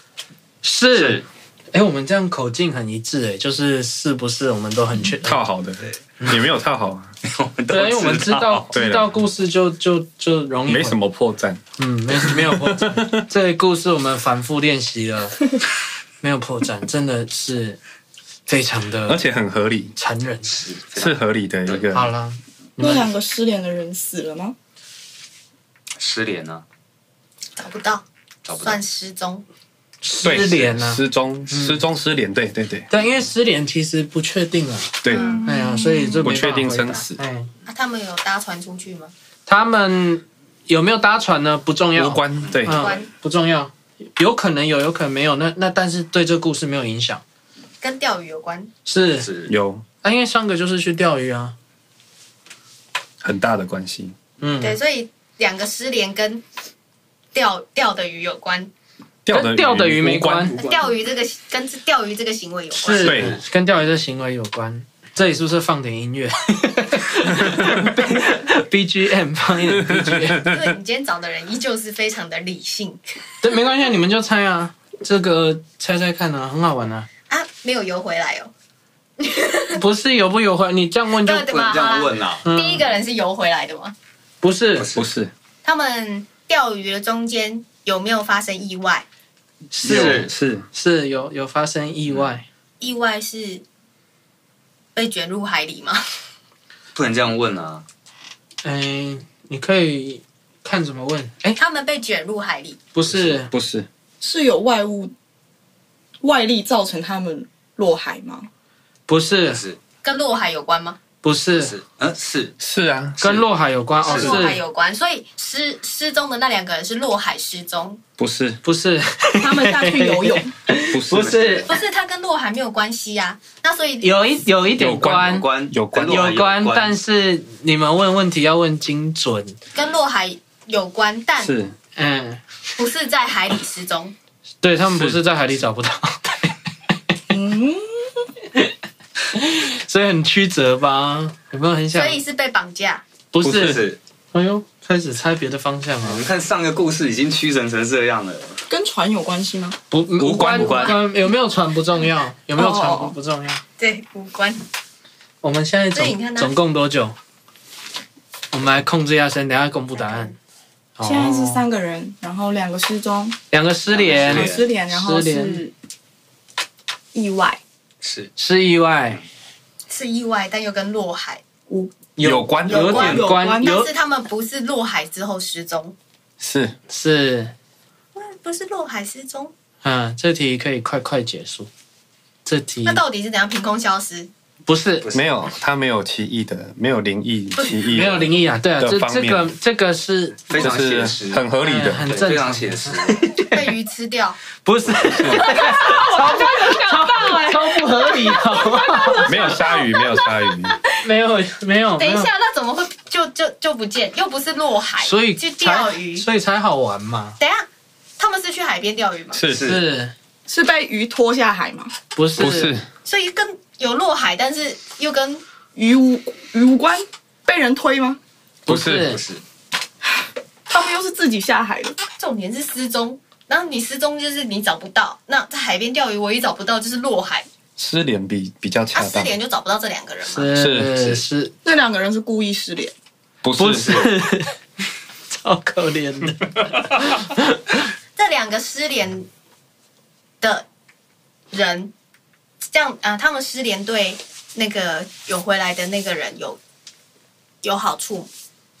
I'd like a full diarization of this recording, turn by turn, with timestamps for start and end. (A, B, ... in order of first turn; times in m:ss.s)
0:00.6-0:05.4 A
0:01.0-0:01.2 B
0:05.2-0:07.1 C
0:07.2-0:08.7 B
0:07.7-0:11.0 A
0:08.7-0:09.1 C
0:10.6-0:11.6 C
0:11.8-0:15.5 A
0:12.1-0:13.2 C
0:16.2-0:17.8 A
0:18.5-0:19.2 A
0:19.1-0:19.9 C
0:20.0-0:20.5 A
0:20.4-0:21.9 B
0:21.0-0:22.1 C
0:21.9-0:23.1 A
0:22.8-0:24.5 D
0:26.0-0:26.6 B
0:27.6-0:28.0 E
0:28.4-0:28.8 B
0:28.6-0:29.4 E
0:30.0-0:31.8 A
0:30.2-0:32.9 C
0:32.9-0:37.5 A
0:35.0-0:35.4 C
0:35.1-0:35.4 E
0:35.1-0:36.2 D
0:36.2-0:37.2 C
0:37.7-0:39.1 E
0:39.5-0:47.2 A
0:41.9-0:42.9 C
0:42.6-0:43.1 E
0:47.8-0:48.7 E
0:48.8-0:49.3 A
0:49.0-0:49.5 B
0:49.5-0:49.8 C
0:50.0-0:51.6 A
0:53.2-0:54.2 C
0:54.4-0:54.8 A
0:54.6-0:56.4 E
0:57.3-0:58.7 E
0:59.2-1:00.8 C
0:59.3-1:00.6 A
1:00.6-1:03.2 E
1:02.7-1:10.5 A
1:03.0-1:03.4 C
1:07.5-1:07.8 C
1:09.7-1:10.7 C
1:10.4-1:13.0 E
1:13.4-1:17.1 A
1:17.3-1:18.5 E
1:19.2-1:19.8 E
1:19.7-1:21.5 A
1:21.2-1:23.9 E
1:21.4-1:22.4 B
1:22.4-1:22.9 A
1:24.4-1:24.9 A
1:24.8-1:25.0 B
1:24.9-1:25.3 C
1:25.6-1:29.0 E
1:29.7-1:32.4 A
1:29.8-1:30.3 B
1:29.9-1:30.6 C
1:32.8-1:33.6 E
1:34.9-1:36.0 E
1:36.9-1:37.8 B
1:38.6-1:41.6 A
1:41.5-1:42.8 E
1:42.9-1:43.5 A
1:43.1-1:43.9 C
1:44.2-1:45.1 D
1:46.2-1:48.5 D
1:49.1-1:49.6 A
1:49.5-1:49.8 B
1:50.0-1:51.0 E
1:51.2-1:51.7 A
1:51.6-1:52.5 B
1:52.6-1:53.4 C
1:53.2-1:54.6 A
1:54.0-1:58.0 E
1:54.1-1:54.4 B
1:58.2-1:58.6 C
1:58.6-2:01.7 A
1:59.4-2:00.5 D
2:00.9-2:01.7 C
2:01.7-2:04.1 E
2:04.0-2:09.6 A
2:04.8-2:06.3 C
2:05.0-2:07.0 B
2:09.7-2:11.5 E
2:11.4-2:11.7 C
2:12.0-2:12.4 A
2:12.8-2:14.1 E
2:14.6-2:16.5 A
2:17.3-2:18.2 D
2:19.3-2:22.2 A
2:21.9-2:23.0 E
2:23.3-2:23.8 A
2:23.4-2:24.0 B
2:24.3-2:26.2 A
2:26.0-2:28.6 B
2:28.7-2:29.8 D
2:29.9-2:33.6 A
2:30.2-2:31.0 B
2:32.5-2:33.1 D
2:33.8-2:34.6 E
2:35.4-2:37.2 A
2:35.9-2:36.5 E
2:38.5-2:40.3 A
2:40.0-2:40.3 E
2:41.0-2:41.6 A
2:41.0-2:43.4 D
2:43.5-2:45.6 A
2:43.9-2:44.6 B
2:44.1-2:45.7 D
2:47.1-2:47.6 D
2:48.0-2:48.3 B
2:48.4-2:49.2 A
2:49.9-2:51.4 E
2:51.7-2:52.1 D
2:52.2-2:53.9 A
2:52.2-2:53.2 C
2:52.6-2:56.0 E
2:53.0-2:53.9 D
2:56.4-2:56.8 C
2:56.9-2:57.5 A
2:58.1-2:59.5 E
2:59.8-3:01.7 A
3:02.4-3:03.0 A
3:02.8-3:04.3 E
3:04.6-3:05.0 A
3:05.0-3:05.3 B
3:05.1-3:09.5 C
3:07.6-3:10.4 A
3:10.5-3:11.4 B
3:10.5-3:12.1 C
3:11.6-3:13.7 A
3:12.0-3:13.2 B
3:13.5-3:14.4 E
3:14.6-3:19.5 A
3:15.0-3:15.5 C
3:15.2-3:21.0 E
3:19.2-3:20.7 C
3:21.0-3:22.3 A
3:22.0-3:26.2 E
3:25.0-3:27.4 A
3:27.4-3:27.7 E
3:28.2-3:29.4 E
3:29.3-3:29.8 C
3:29.5-3:29.8 B
3:29.5-3:30.1 A
3:30.5-3:31.9 D
3:32.1-3:32.8 A
3:32.4-3:32.8 C
3:33.0-3:35.4 E
3:35.7-3:38.2 D
3:38.7-3:39.2 C
3:38.7-3:39.2 A
3:39.1-3:39.4 B
3:40.7-3:42.0 D
3:42.1-3:47.5 E
3:47.8-3:49.3 C
3:48.9-3:50.5 E
3:50.2-3:51.5 A
3:50.5-3:51.2 C
3:51.6-3:52.9 D
3:53.4-3:54.0 C
3:53.6-3:54.6 A
3:53.7-3:54.0 B
3:55.3-3:57.8 A
3:58.2-3:59.3 E
4:00.4-4:00.6 E
4:01.5-4:01.9 E
4:02.7-4:06.6 E
4:07.6-4:08.3 E